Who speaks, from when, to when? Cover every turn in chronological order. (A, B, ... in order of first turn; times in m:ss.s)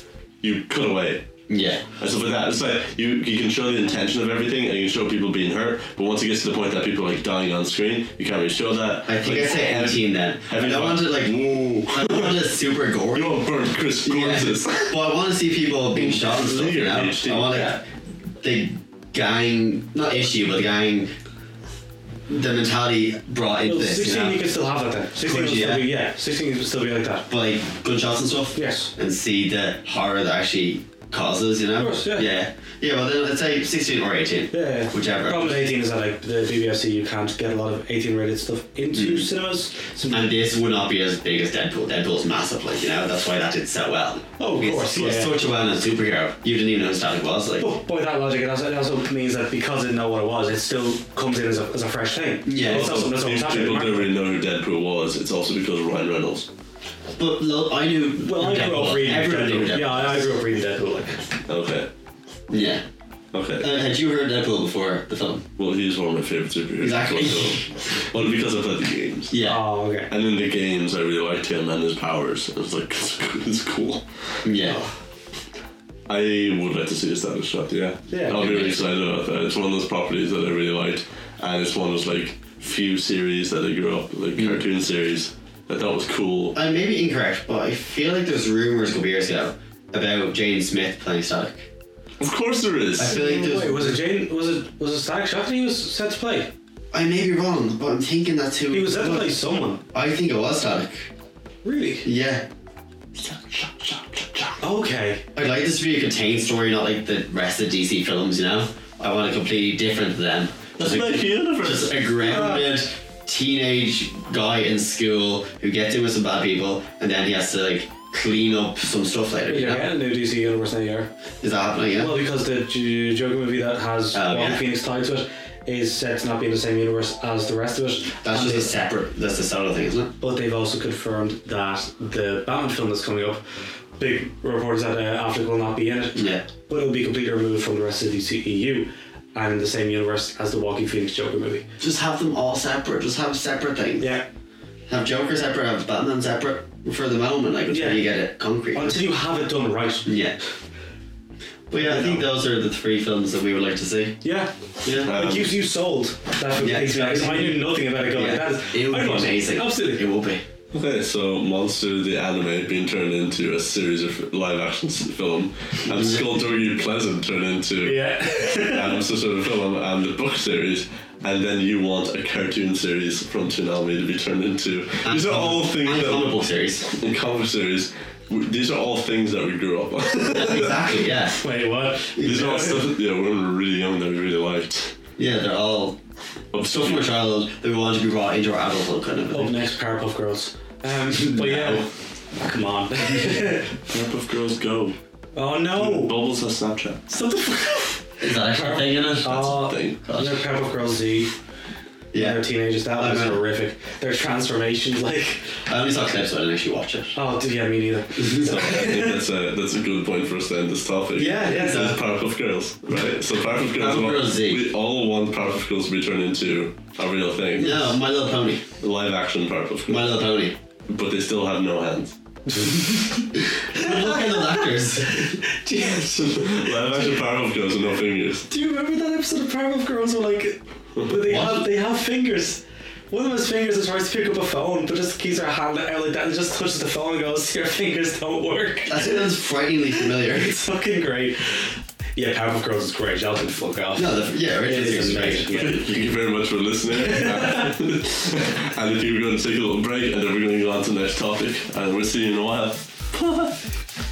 0:00.4-0:01.3 A
0:01.5-0:01.8 B
0:02.0-0:12.3 A
0:09.1-0:13.4 B
0:13.1-0:15.0 A
0:14.0-0:17.8 B
0:15.9-0:17.7 A
0:18.4-0:21.1 B
0:22.3-0:24.4 B
0:23.6-0:27.2 C
0:25.2-0:25.9 B
0:27.3-0:35.6 B
0:28.5-0:28.9 C
0:31.8-0:32.3 C
0:34.5-0:40.2 C
0:38.9-0:39.3 B
0:40.1-0:47.7 B
0:44.4-0:45.4 C
0:47.6-0:54.1 C
0:52.4-0:53.1 B
0:52.6-0:56.5 A
0:57.2-1:00.3 B
0:58.2-1:01.2 C
1:01.5-1:01.9 A
1:02.5-1:02.8 B
1:03.3-1:03.7 A
1:03.6-1:05.4 B
1:05.6-1:09.4 A
1:06.8-1:07.8 B
1:09.3-1:09.6 B
1:09.4-1:10.1 C
1:10.1-1:14.0 A
1:14.4-1:14.8 B
1:16.1-1:26.6 A
1:18.1-1:18.6 C
1:18.3-1:18.7 B
1:24.4-1:24.6 B
1:26.5-1:31.7 B
1:32.2-1:33.2 A
1:33.0-1:34.0 B
1:33.0-1:36.5 C
1:36.9-1:39.4 B
1:38.7-1:39.8 C
1:39.9-1:41.1 B
1:41.6-1:42.0 C
1:42.0-1:42.5 B
1:43.2-1:44.6 A
1:44.6-1:45.3 C
1:45.3-1:59.9 B
1:50.8-1:52.2 A
1:52.3-1:52.7 C
1:59.5-2:01.1 C
2:01.4-2:02.1 B
2:02.0-2:08.7 C
2:04.1-2:04.6 B
2:08.2-2:10.1 B
2:10.2-2:13.4 C
2:14.0-2:21.6 C
2:16.1-2:16.5 B
2:21.8-2:24.1 B
2:24.0-2:24.3 C
2:24.9-2:29.0 B
2:27.7-2:28.0 C
2:28.7-2:30.2 C
2:30.0-2:30.4 B
2:31.7-2:34.2 B
2:31.8-2:32.2 C
2:34.2-2:40.0 C
2:34.8-2:35.1 B
2:35.0-2:35.5 A
2:36.5-2:40.4 B
2:40.7-2:56.3 A
2:45.9-2:46.3 B
2:47.8-2:49.0 C
2:55.0-2:56.9 B
2:56.9-3:00.8 A
3:00.3-3:01.4 B
3:01.4-3:02.8 C
3:02.2-3:05.0 A
3:05.2-3:06.0 B
3:06.5-3:07.0 A
3:06.6-3:09.5 B
3:09.3-3:13.8 C
3:11.3-3:11.9 B
3:13.9-3:15.0 A
3:15.3-3:16.1 C
3:15.7-3:17.0 A
3:17.1-3:21.3 C
3:18.2-3:19.4 B
3:19.2-3:20.3 A
3:20.1-3:20.3 B
3:22.1-3:22.4 B
3:22.1-3:25.5 C
3:22.9-3:23.4 B
3:25.6-3:27.2 B
3:27.1-3:29.2 C
3:28.3-3:38.0 A
3:31.2-3:31.9 C
3:31.4-3:32.0 B
3:33.6-3:34.7 B
3:37.6-3:38.6 B
3:38.8-3:40.2 A
3:39.9-3:40.6 B
3:40.9-3:42.2 A
3:42.5-3:47.2 C
3:43.4-3:45.4 B
3:46.2-3:48.5 A
3:48.5-3:59.2 C
3:51.2-3:51.7 B
3:58.8-4:00.7 B
4:00.4-4:05.9 C
4:03.9-4:05.5 B
4:05.5-4:13.5 A
4:07.0-4:07.7 C